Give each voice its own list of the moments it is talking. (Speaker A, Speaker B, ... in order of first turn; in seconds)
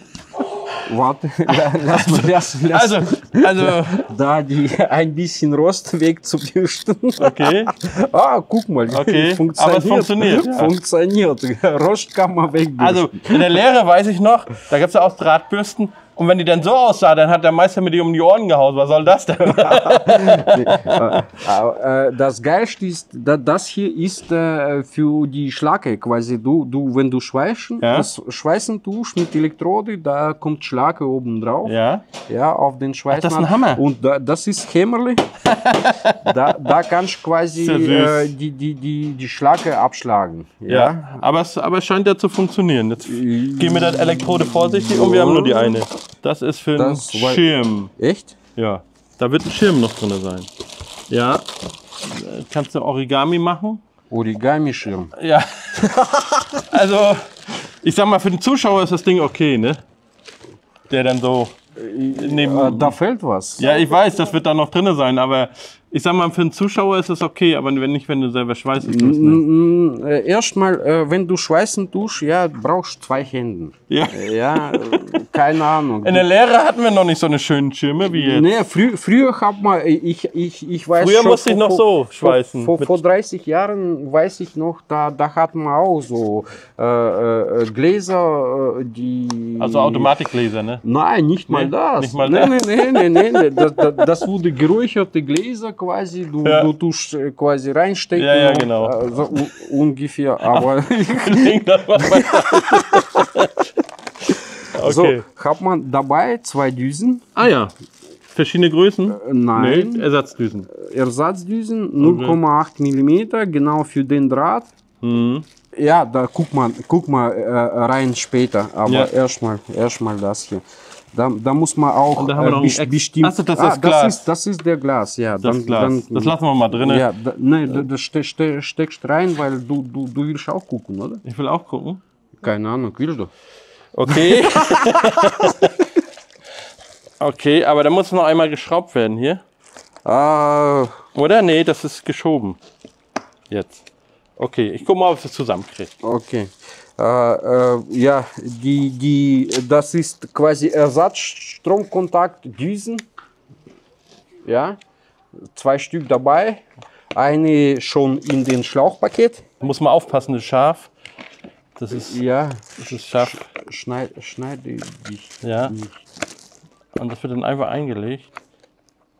Speaker A: 0.8-13.6, 19.7-35.2, 36.2-41.2, 43.0-45.8, 46.8-47.4, 48.0-48.4, 54.1-55.1, 61.8-63.7, 68.8-76.2, 78.1-90.1, 90.8-103.3, 104.8-107.3, 109.1-110.1, 110.7-114.7, 115.8-131.2, 132.4-133.3, 134.1-135.4, 140.1-141.0, 146.0-153.1, 154.4-154.8, 155.4-159.5, 161.9-165.9
Speaker B: 1.9-4.0, 7.2-7.7, 8.9-10.7, 12.8-21.1, 27.8-28.1, 31.6-32.0, 33.1-33.8, 35.5-36.7, 37.6-38.3, 40.7-47.9, 48.6-50.5, 51.1-51.5, 52.0-53.8, 55.1-59.8, 60.9-61.6, 62.1-63.0, 63.6-69.4, 73.9-75.4, 76.0-78.5, 81.0-83.0, 89.6-90.8, 91.5-93.6, 98.1-99.0, 100.5-103.7, 104.7-105.2, 107.4-107.7, 108.3-110.7, 112.0-112.4, 115.0-115.5, 118.9-119.1, 122.2-124.2, 125.4-127.1, 131.2-132.0, 133.9-135.7, 137.2-139.4, 141.1-142.6, 143.5-143.8, 144.4-145.9, 159.6-160.9, 161.8-162.2, 162.8-163.5, 165.4-165.7, 166.9-168.3